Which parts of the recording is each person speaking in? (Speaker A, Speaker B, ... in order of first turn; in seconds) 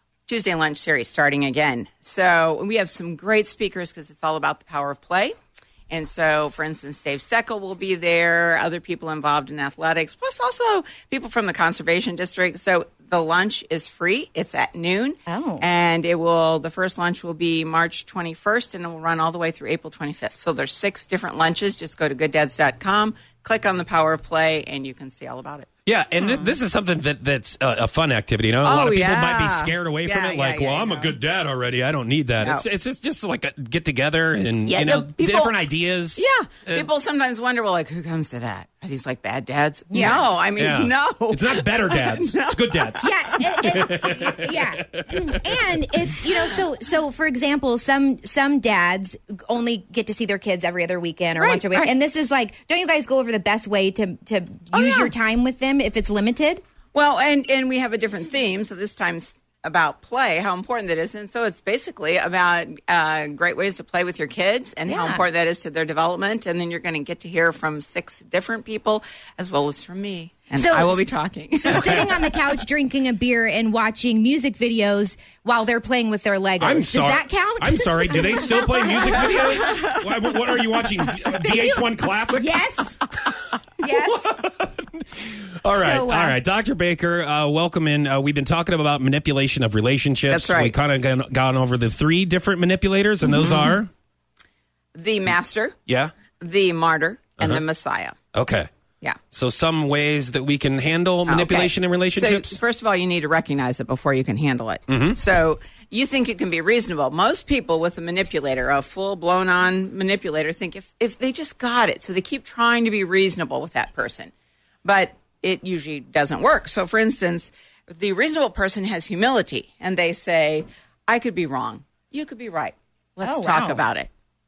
Speaker A: 0.3-5.3, 5.9-26.6, 28.6-31.2, 32.4-32.7, 34.7-35.5, 36.2-44.5, 51.4-51.9, 54.7-55.1, 56.9-72.3, 79.0-80.0, 90.3-90.8, 93.3-93.8, 95.0-95.8, 96.4-98.2, 101.3-114.3, 114.8-124.1
Speaker B: 15.3-15.7, 39.9-40.3, 43.0-56.6, 64.9-65.2, 70.5-71.0, 71.6-79.8, 81.4-83.2, 83.8-84.3, 85.7-86.4, 123.2-123.8
Speaker C: 25.9-36.9, 40.0-45.5, 71.7-72.1, 76.6-82.5, 83.9-93.9, 95.9-96.1, 98.3-98.7, 99.3-102.6, 104.9-105.2